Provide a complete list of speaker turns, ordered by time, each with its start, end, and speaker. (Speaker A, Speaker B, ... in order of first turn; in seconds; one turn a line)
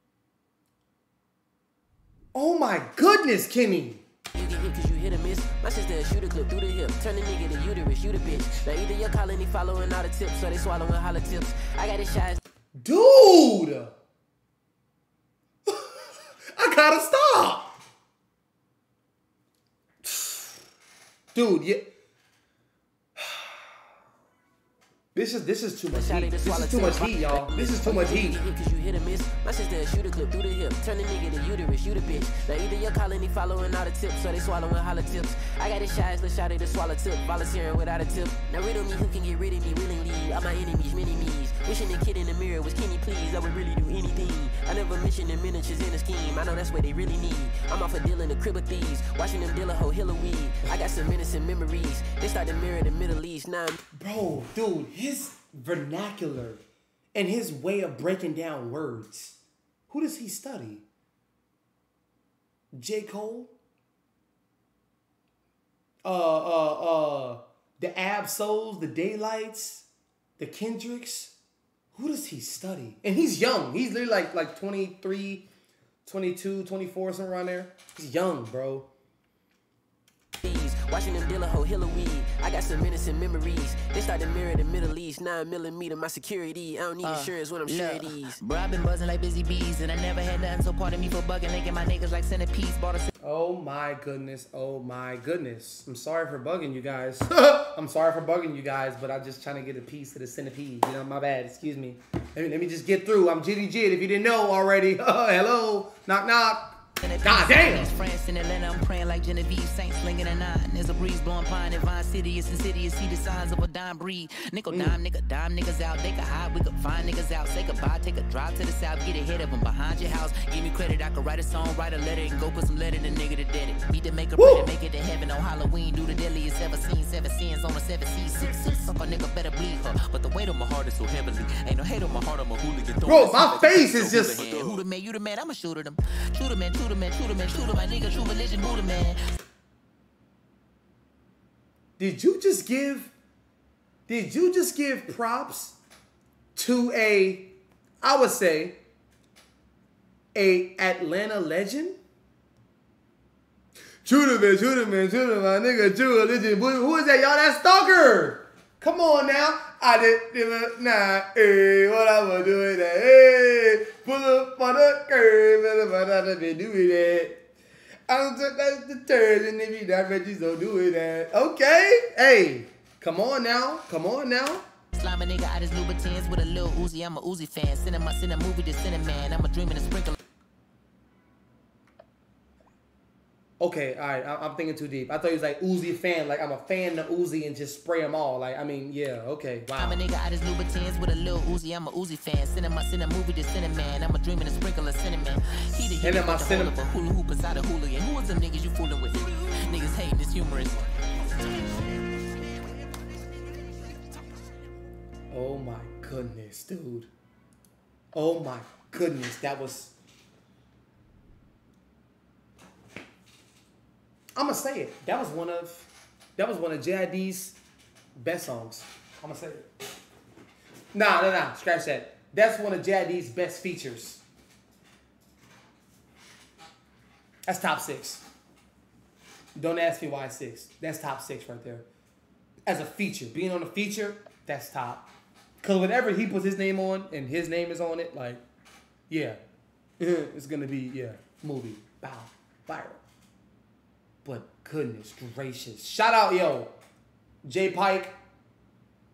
Speaker A: 2.3-4.0
Speaker B: 4.3-12.4
Speaker A: 12.8-13.9
Speaker A: 15.7-17.8
Speaker A: 20.1-20.6
Speaker A: 21.3-21.9
Speaker A: 23.2-23.7
Speaker A: 25.1-28.4
Speaker B: 25.9-53.8
Speaker A: 54.0-56.6
Speaker A: 57.1-59.4
Speaker A: 59.9-60.9
Speaker A: 62.7-63.5
Speaker A: 66.0-69.9
Speaker A: 70.4-71.4
Speaker A: 71.9-75.5
Speaker A: 76.0-78.9
Speaker B: 80.4-88.4
Speaker C: 87.0-93.1
Speaker A: 93.2-107.9
Speaker C: 107.0-139.2
Speaker A: 114.7-115.0
Speaker A: 124.4-124.7
Speaker A: 128.5-128.8
Speaker A: 133.1-134.5
Speaker A: 142.0-143.1
Speaker A: 144.1-145.8
Speaker A: 146.6-148.8
Speaker A: 150.3-152.0
Speaker A: 154.1-167.4
Speaker A: 168.1-174.6
Speaker C: 174.9-180.2
Speaker A: 183.6-190.1
Speaker C: 189.8-201.7
Speaker A: 195.9-196.8
Speaker A: 205.3-207.1
Speaker A: 208.1-209.9
Speaker A: 214.3-217.6
Speaker A: 218.2-219.7
Speaker A: 220.9-224.2
Speaker A: 227.5-228.2
Speaker A: 229.6-231.9
Speaker A: 232.7-235.1
Speaker A: 235.6-238.4
Speaker A: 239.1-239.4
Speaker A: 240.0-243.0
Speaker A: 244.2-246.7
Speaker A: 247.4-248.1